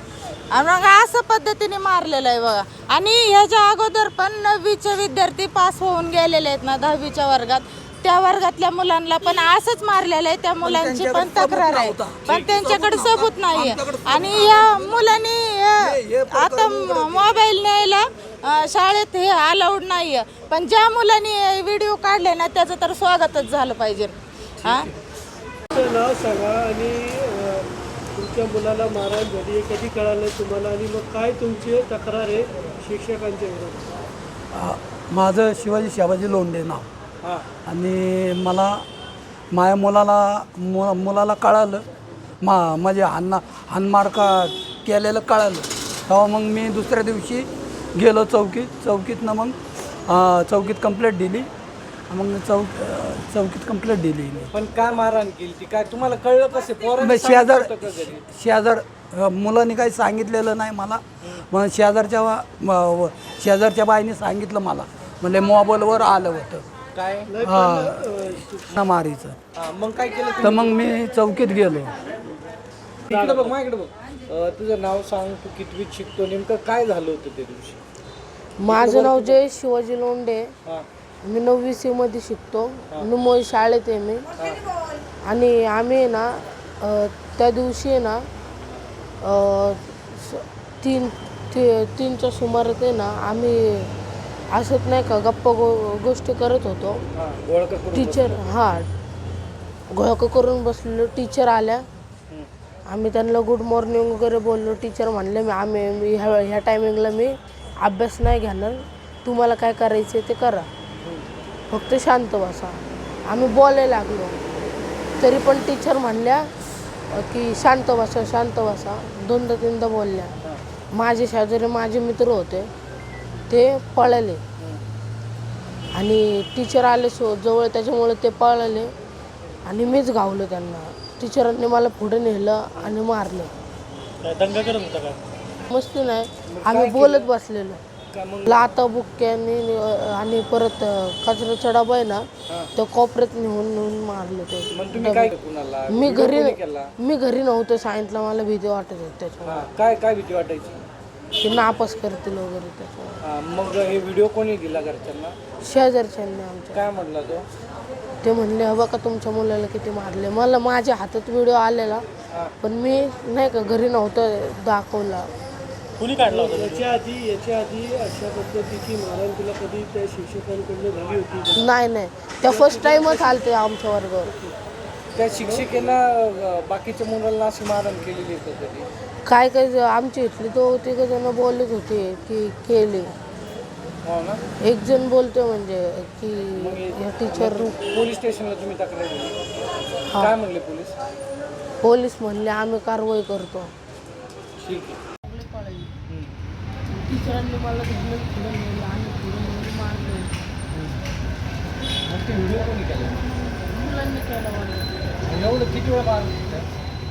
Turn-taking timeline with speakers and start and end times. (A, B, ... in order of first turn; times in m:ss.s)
0:00.5-0:24.9 A
0:10.6-0:15.0 B
0:15.8-0:17.4 B
0:24.6-0:25.0 B
0:25.7-0:33.8 C
0:34.5-0:36.9 B
0:37.6-0:38.8 B
0:39.5-0:41.8 B
0:42.4-0:51.5 B
0:52.1-0:54.5 B
0:54.5-0:58.2 D
0:57.0-1:06.6 B
1:06.9-1:07.3 D
1:07.2-1:08.7 C
1:07.4-1:09.4 B
1:09.6-1:10.8 D
1:10.4-1:11.9 B
1:13.1-1:13.5 C
1:13.1-1:17.8 D
1:18.6-1:20.5 E
1:18.6-1:19.4 D
1:21.2-1:24.3 E
1:24.4-1:24.6 D
1:25.3-1:28.2 E
1:29.2-1:33.9 E
1:34.5-1:37.0 E
1:37.2-1:38.4 D
1:37.9-1:38.9 E
1:39.9-1:41.8 E
1:42.9-1:50.7 E
1:51.7-1:54.4 E
1:55.2-1:56.5 E
1:57.1-2:00.3 E
2:00.9-2:02.7 E
2:03.5-2:04.4 E
2:05.9-2:08.9 E
2:09.6-2:13.5 E
2:14.3-2:15.1 C
2:15.7-2:17.8 E
2:16.5-2:17.3 D
2:18.1-2:18.7 D
2:18.4-2:25.3 E
2:24.7-2:26.9 D
2:25.9-2:29.6 E
2:29.4-2:30.8 D
2:31.4-2:33.2 E
2:33.2-2:35.4 D
2:35.6-2:36.8 E
2:36.7-2:37.4 D
2:38.2-2:42.0 E
2:42.6-2:45.3 E
2:46.0-2:46.8 D
2:46.1-2:51.6 C
2:51.6-2:54.3 E
2:52.4-2:53.5 C
2:54.3-2:54.5 C
2:55.2-2:58.9 D
2:55.4-2:55.7 C
2:59.2-3:03.1 E
3:04.0-3:04.4 D
3:04.6-3:07.7 E
3:06.5-3:09.4 D
3:10.1-3:10.3 E
3:10.1-3:10.9 D
3:11.8-3:13.7 E
3:14.6-3:15.0 D
3:15.3-3:15.9 E
3:16.9-3:20.3 E
3:20.7-3:21.0 D
3:22.1-3:23.2 D
3:23.6-3:24.9 E
3:25.2-3:26.7 D